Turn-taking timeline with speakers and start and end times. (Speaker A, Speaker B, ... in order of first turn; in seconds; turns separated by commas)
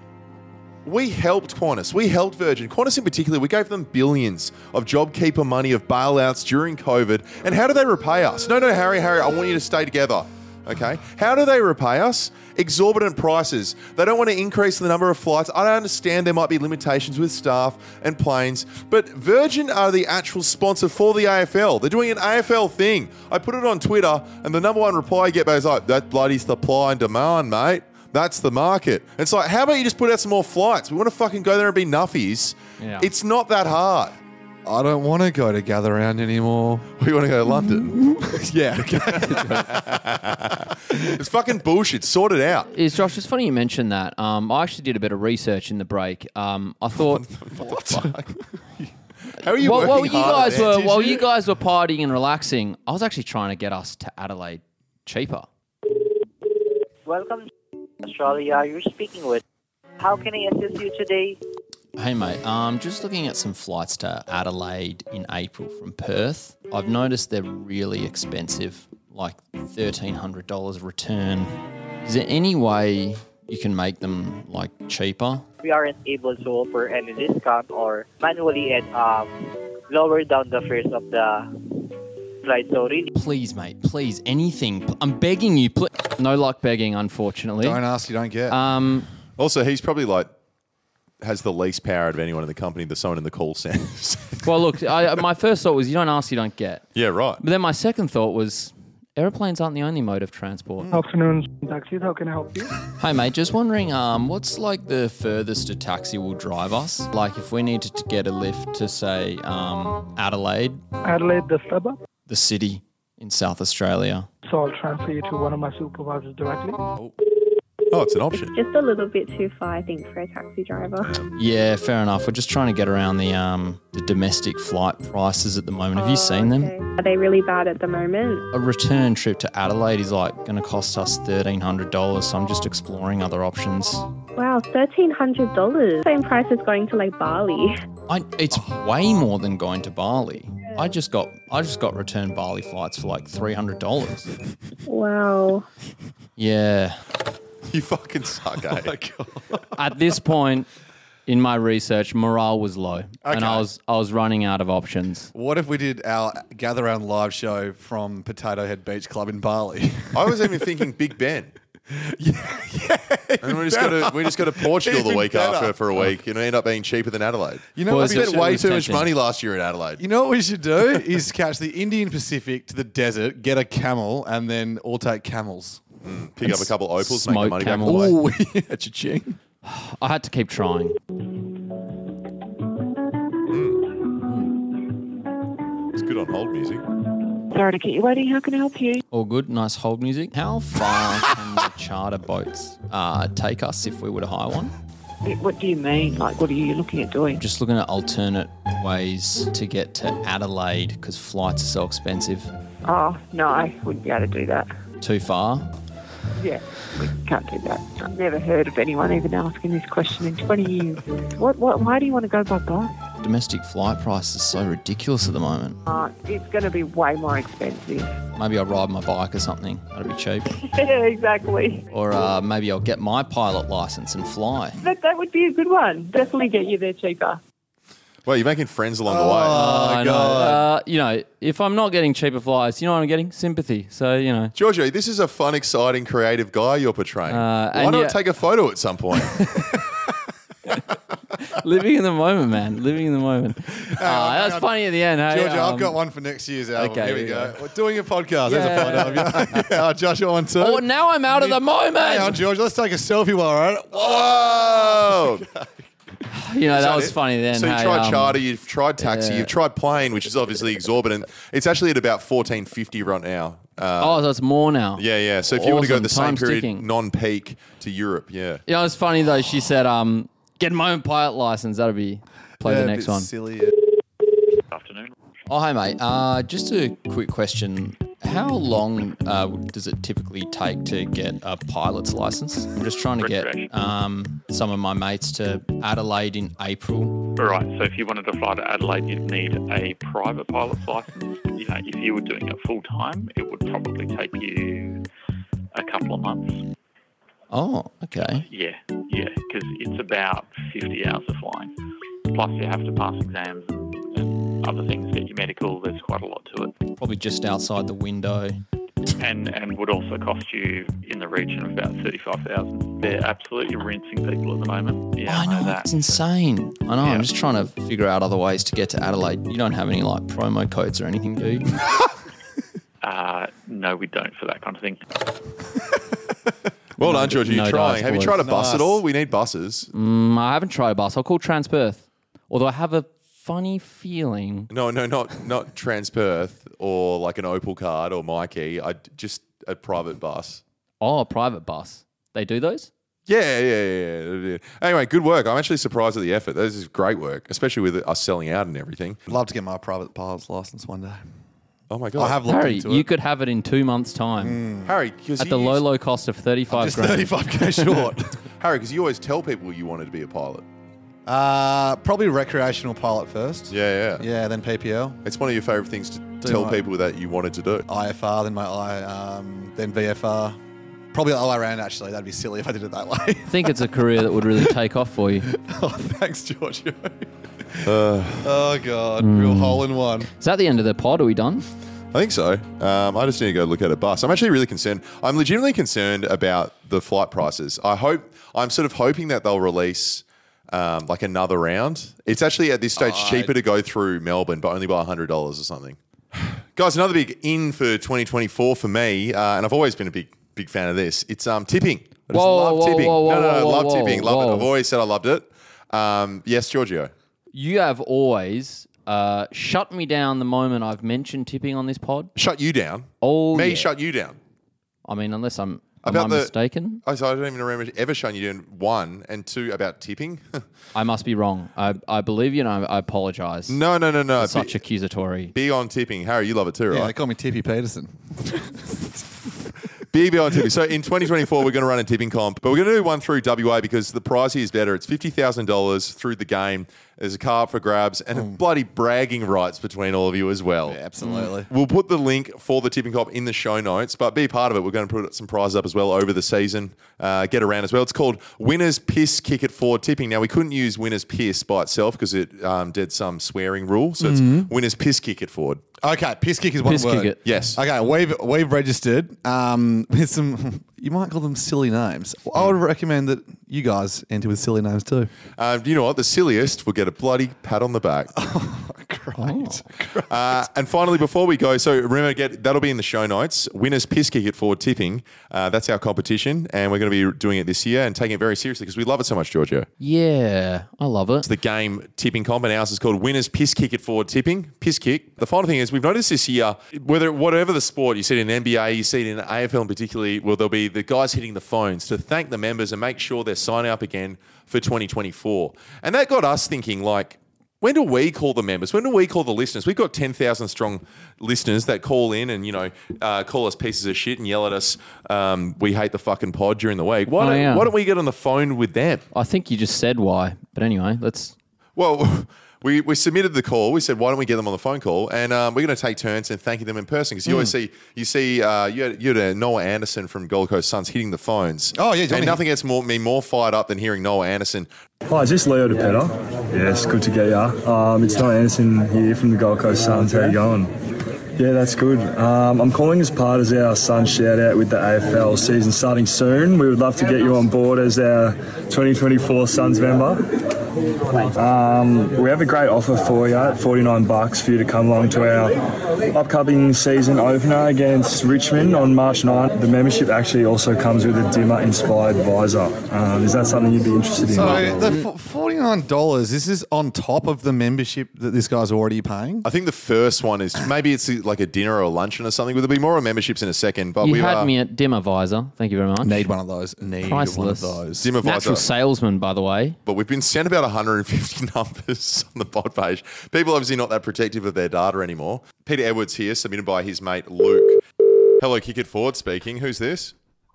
Speaker A: 0.8-34.2, Speaker B: 32.8-33.1, Speaker C: 34.6-36.9, Speaker A: 37.0-38.0, Speaker C: 37.7-39.8, Speaker A: 39.2-42.7, Speaker C: 40.5-41.1, Speaker B: 42.7-47.2, Speaker A: 47.0-48.3, Speaker C: 47.6-48.1, Speaker A: 49.4-51.1, Speaker B: 49.6-55.5, Speaker C: 50.2-51.2, Speaker D: 57.0-57.5, Speaker D: 58.0-59.4, Speaker D: 60.0-61.4, Speaker B: 62.0-75.5, Speaker D: 75.6-81.8, Speaker D: 82.4-83.1, Speaker B: 83.1-87.8, Speaker C: 87.6-88.6, Speaker B: 88.5-89.1, Speaker A: 89.4-90.3, Speaker A: 91.2-94.5, Speaker B: 94.4-96.8, Speaker A: 97.0-97.4, Speaker B: 97.4-100.9, Speaker E: 100.9-102.7, Speaker B: 103.0-110.8, Speaker E: 111.0-112.0, Speaker B: 112.3-114.3, Speaker E: 114.5-116.8, Speaker A: 117.9-118.5, Speaker F: 118.3-121.2, Speaker A: 121.0-121.3, Speaker B: 121.4-126.7, Speaker F: 126.0-128.5, Speaker B: 128.5-134.1, Speaker F: 134.4-137.8, Speaker B: 138.1-144.3, Speaker F: 144.9-145.7, Speaker B: 146.4-147.0, Speaker A: 147.7-148.9, Speaker C: 148.7-149.7, Speaker B: 149.8-150.7, Speaker B: 151.3-155.3, Speaker C: 153.2-153.7, Speaker C: 155.3-160.6, Speaker A: 160.1-161.5, Speaker C: 161.9-165.8, Speaker A: 163.4-170.0, Speaker C: 167.8-168.9, Speaker B: 167.9-169.1, Speaker C: 170.0-175.8, Speaker A: 176.0-178.2, Speaker B: 176.4-178.1, Speaker C: 177.8-179.4, Speaker B: 179.6-181.0, Speaker A: 183.5-183.9, Speaker B: 184.2-184.6, Speaker A: 185.9-186.8, Speaker G: 187.5-189.0, Speaker B: 189.1-194.7, Speaker G: 195.2-197.4, Speaker B: 197.4-202.5, Speaker G: 202.8-204.7, Speaker B: 205.0-205.7, Speaker G: 206.4-212.9, Speaker B: 213.2-215.8, Speaker G: 215.9-218.2, Speaker B: 218.3-220.5, Speaker G: 220.7-221.8, Speaker B: 221.9-224.8, Speaker G: 224.8-227.4, Speaker A: 228.3-229.7, Speaker C: 229.1-230.7, Speaker B: 229.5-234.5, Speaker A: 234.6-239.4, Speaker B: 237.3-238.2, Speaker B: 239.3-239.7, Speaker B: 241.4-246.0, Speaker C: 243.8-244.7, Speaker C: 245.3-255.7, Speaker B: 246.8-247.6, Speaker B: 248.5-249.6, Speaker B: 250.6-252.4, Speaker A: 253.9-255.4, Speaker B: 256.3-258.4, Speaker A: 256.7-264.2, Speaker B: 259.0-259.5, Speaker B: 264.0-266.9, Speaker A: 265.0-268.6, Speaker B: 268.7-273.3, Speaker C: 272.6-273.8, Speaker H: 274.7-275.1, Speaker B: 275.5-287.3, Speaker H: 283.2-283.7, Speaker H: 287.4-295.0, Speaker H: 295.7-296.6, Speaker B: 297.5-298.4, Speaker H: 298.2-301.7, Speaker H: 302.3-306.8, Speaker B: 307.0-308.6, Speaker H: 309.2-316.2, Speaker B: 315.3-321.8, Speaker H: 317.0-317.3, Speaker H: 323.0-325.0, Speaker A: 327.0-329.9, Speaker B: 327.0-328.4, Speaker C: 328.4-329.0, Speaker B: 329.9-334.7, Speaker A: 334.7-340.6, Speaker B: 341.0-342.9, Speaker A: 343.3-349.2, Speaker C: 349.3-351.2, Speaker A: 351.9-352.4, Speaker C: 352.1-353.1, Speaker B: 352.5-354.6, Speaker C: 354.4-354.9, Speaker A: 354.9-355.8, Speaker B: 355.4-357.6, Speaker C: 356.7-358.4, Speaker A: 358.6-360.6, Speaker C: 361.3-365.2, Speaker A: 363.7-364.2, Speaker A: 365.2-367.9, Speaker C: 366.4-366.8, Speaker C: 367.9-370.6, Speaker C: 371.1-373.9, Speaker B: 373.5-375.5, Speaker C: 375.5-380.3, Speaker A: 377.8-378.5, Speaker B: 379.2-381.7, Speaker A: 382.1-407.1, Speaker C: 393.0-393.5, Speaker B: 402.3-404.7, Speaker B: 407.5-412.3, Speaker A: 412.4-414.4, Speaker B: 413.2-413.9, Speaker B: 415.1-417.0, Speaker A: 416.0-416.5, Speaker A: 417.0-420.6, Speaker B: 420.9-423.8, Speaker A: 423.7-424.8, Speaker B: 424.4-425.5, Speaker A: 425.5-427.1, Speaker C: 426.9-429.3, Speaker A: 430.1-455.8, Speaker C: 438.3-438.6, Speaker C: 440.9-441.7, Speaker C: 454.2-454.7, Speaker C: 456.0-465.3, Speaker B: 456.9-457.4, Speaker A: 457.4-457.8, Speaker A: 465.6-468.3, Speaker C: 468.3-470.7, Speaker B: 469.4-469.9, Speaker A: 470.3-479.9, Speaker B: 480.0-481.5, Speaker A: 481.4-509.2, Speaker B: 507.4-507.9, Speaker B: 509.3-511.6, Speaker A: 512.0-524.9, Speaker C: 517.5-517.7, Speaker C: 521.9-522.6, Speaker I: 525.2-530.9, Speaker I: 531.6-540.4, Speaker I: 541.4-555.1, Speaker C: 554.5-559.7, Speaker A: 559.6-564.7, Speaker B: 564.2-566.5, Speaker C: 566.2-568.3, Speaker B: 567.2-570.0, Speaker A: 568.2-568.9, Speaker A: 570.0-578.0, Speaker A: 578.6-580.3